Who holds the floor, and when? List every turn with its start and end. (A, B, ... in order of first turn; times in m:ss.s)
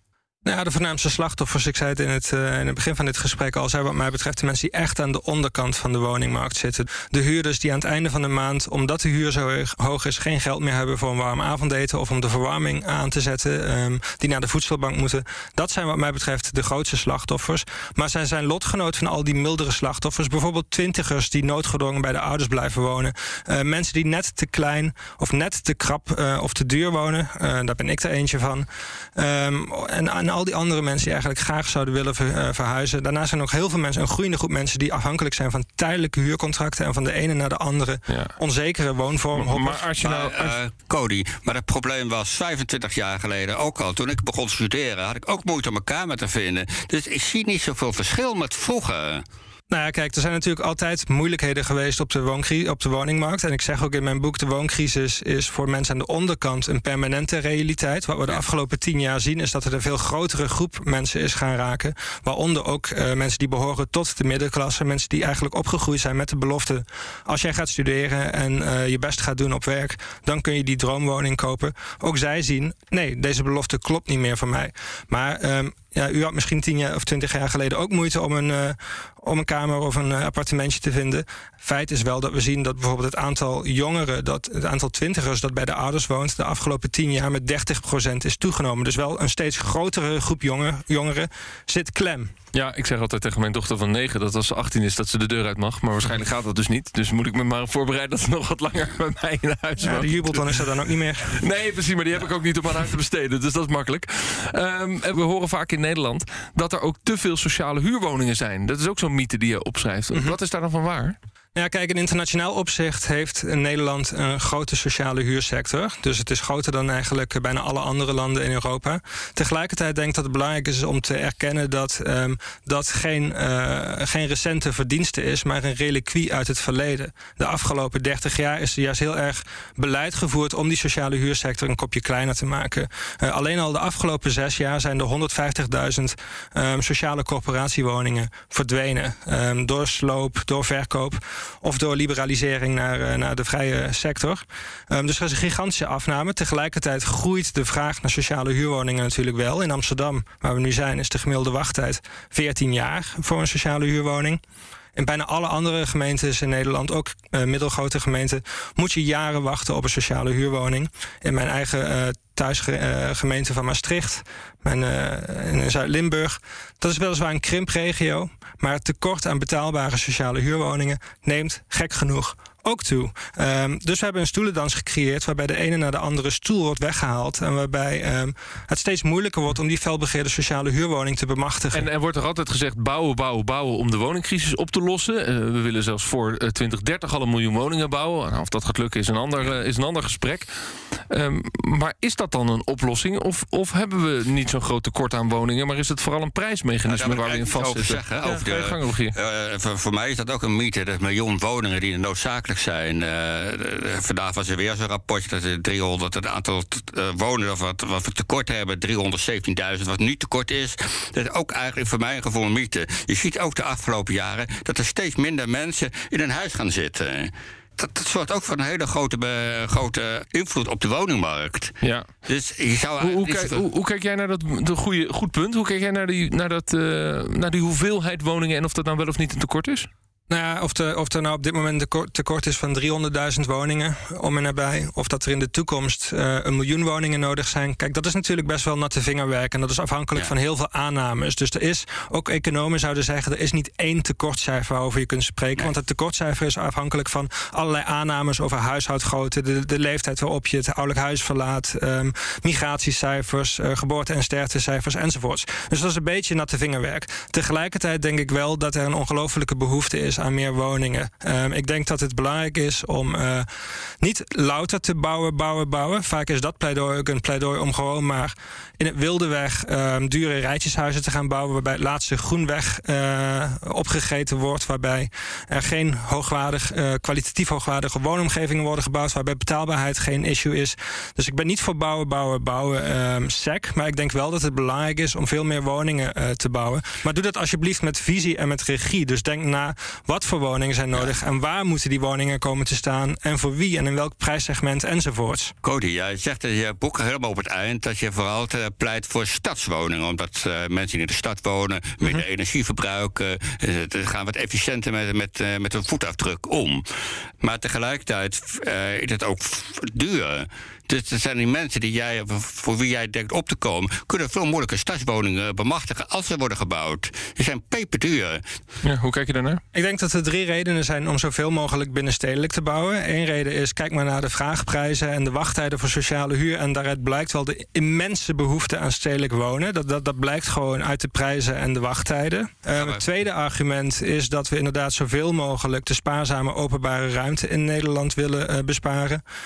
0:00.4-0:39.8 A
0:38.1-0:38.3 B
0:39.3-0:40.6 B
0:40.0-0:49.2 C
0:49.7-1:32.3 A
1:32.5-1:40.6 B
1:39.8-1:41.4 A
1:41.3-1:51.2 B
1:51.6-2:34.4 A
2:35.0-3:01.9 A
3:01.7-3:10.5 B
3:11.1-3:19.2 B
3:16.9-3:41.7 C
3:41.8-3:42.1 B
3:42.3-3:43.6 C
3:43.0-3:49.9 B
3:50.3-4:23.5 A
4:24.0-4:55.5 A
4:55.6-5:06.8 C
5:07.4-5:18.4 C
5:18.8-5:19.6 B
5:19.7-5:39.2 A